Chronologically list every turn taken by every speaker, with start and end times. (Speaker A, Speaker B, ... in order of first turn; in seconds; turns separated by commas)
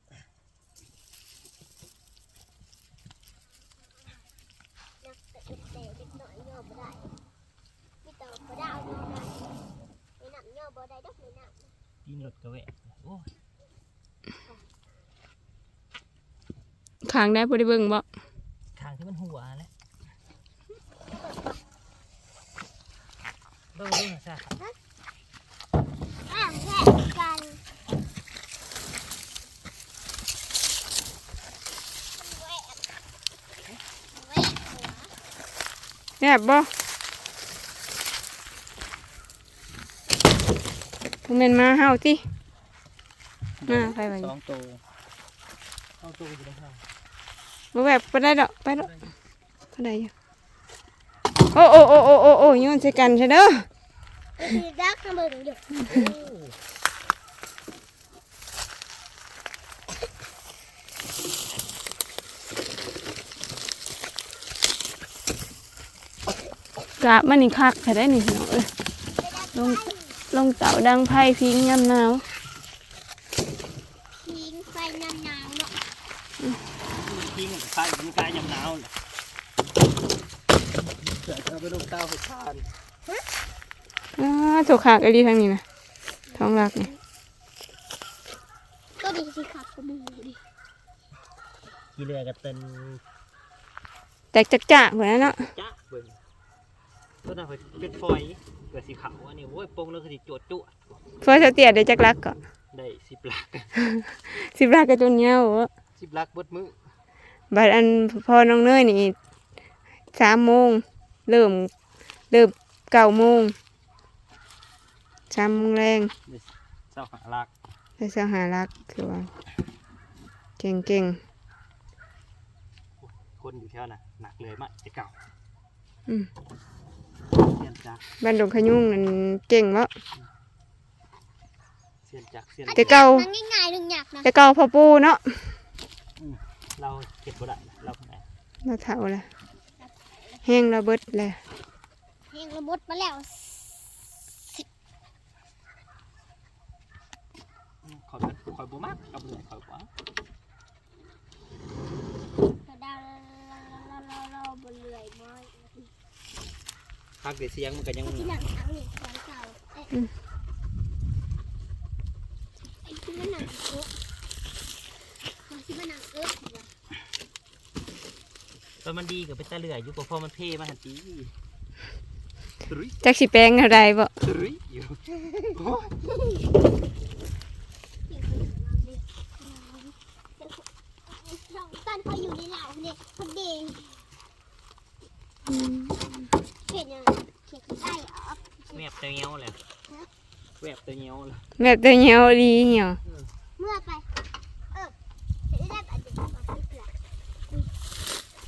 Speaker A: 5.0-7.1, Speaker A: 8.0-9.4, Speaker A: 10.2-11.7, Speaker B: 12.1-13.3, Speaker C: 17.0-18.0, Speaker B: 18.8-19.7, Speaker B: 23.7-24.5, Speaker A: 26.3-27.6, Speaker A: 32.2-32.8, Speaker A: 34.1-35.1, Speaker C: 36.2-36.7, Speaker C: 41.2-42.2, Speaker B: 43.6-44.8, Speaker C: 43.6-44.3, Speaker B: 46.0-46.8, Speaker C: 47.7-48.9, Speaker B: 48.8-49.1, Speaker C: 49.8-50.1, Speaker C: 51.5-53.6, Speaker A: 54.4-55.7, Speaker B: 55.9-56.5, Speaker C: 67.0-68.7, Speaker A: 69.2-70.2, Speaker C: 69.5-72.2, Speaker A: 74.1-75.7, Speaker B: 76.9-78.9, Speaker B: 81.0-82.7, Speaker C: 84.2-85.6, Speaker A: 86.3-86.9, Speaker C: 86.3-86.9, Speaker A: 89.0-90.4, Speaker B: 92.0-93.0, Speaker C: 94.3-95.5, Speaker B: 95.2-96.2, Speaker B: 97.2-101.0, Speaker C: 101.2-102.3, Speaker B: 102.7-103.7, Speaker C: 103.9-105.7, Speaker B: 106.0-106.8, Speaker C: 107.5-109.1, Speaker C: 110.1-111.7, Speaker C: 112.3-113.5, Speaker C: 115.3-116.1, Speaker B: 116.3-117.5, Speaker C: 118.0-119.3, Speaker C: 120.6-121.2, Speaker B: 123.0-125.1, Speaker B: 127.4-128.0, Speaker C: 128.2-129.9, Speaker B: 132.0-133.1, Speaker A: 132.7-134.3, Speaker C: 132.7-133.3, Speaker C: 134.2-135.6, Speaker B: 136.2-138.2, Speaker C: 138.6-139.3, Speaker A: 139.8-140.1, Speaker C: 140.4-141.4, Speaker A: 142.3-144.1, Speaker B: 147.8-149.9, Speaker A: 152.7-155.9, Speaker B: 157.2-158.4, Speaker A: 158.0-159.9, Speaker A: 162.8-163.9, Speaker A: 165.5-166.7, Speaker B: 168.8-171.3, Speaker B: 172.7-173.0, Speaker C: 173.0-174.1, Speaker B: 174.2-175.9, Speaker A: 178.1-179.0, Speaker A: 180.4-183.9, Speaker C: 185.5-186.1, Speaker A: 186.7-188.8, Speaker B: 188.7-189.6, Speaker B: 190.6-191.4, Speaker C: 191.6-193.0, Speaker A: 193.6-194.1, Speaker A: 195.5-196.9